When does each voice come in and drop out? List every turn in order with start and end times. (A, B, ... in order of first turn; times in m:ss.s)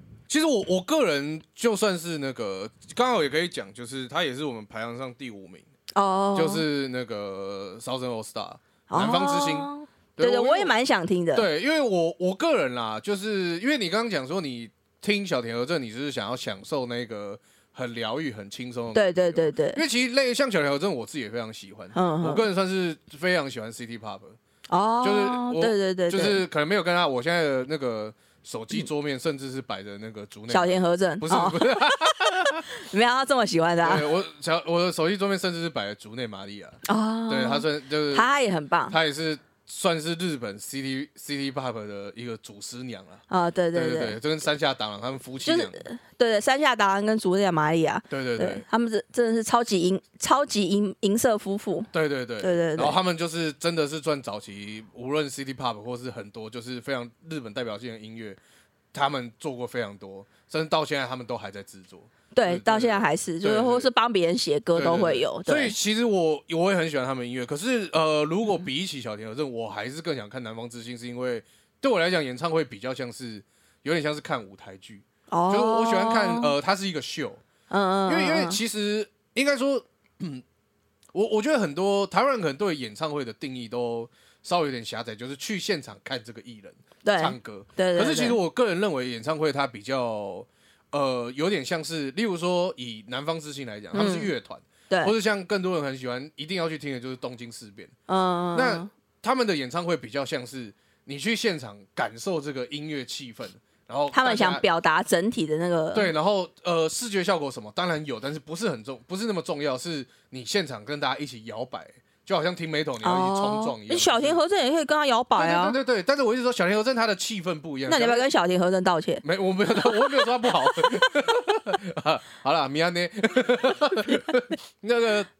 0:00.3-0:05.6 A
0:05.9-0:06.6 B
0:06.3-0:10.7 A
0:08.9-0:11.4 B
0:11.3-0:24.4 A
0:18.9-0:19.8 B
0:21.9-0:22.4 B
0:24.7-0:26.4 B
0:25.0-0:32.6 A
0:30.5-0:31.8 B
0:32.7-0:34.1 B
0:33.8-0:38.3 A
0:36.8-0:39.0 B
0:38.9-0:43.2 A
0:43.3-0:44.2 B
0:43.7-0:45.8 A
0:45.4-0:51.9 B
0:48.1-0:48.6 A
0:51.9-0:58.4 A
0:52.4-0:53.0 B
0:58.9-1:03.9 A
1:02.3-1:05.8 B
1:04.7-1:17.4 A
1:15.3-1:16.5 B
1:17.7-1:18.6 B
1:18.1-1:20.4 A
1:21.1-1:37.9 A
1:27.0-1:28.4 B
1:33.9-1:34.3 B
1:38.1-1:38.9 B
1:38.5-1:44.6 A
1:44.1-1:46.1 B
1:45.9-1:54.4 A
1:53.0-1:55.8 B
1:55.4-1:58.2 A
1:57.9-2:01.1 B
1:59.2-2:05.3 A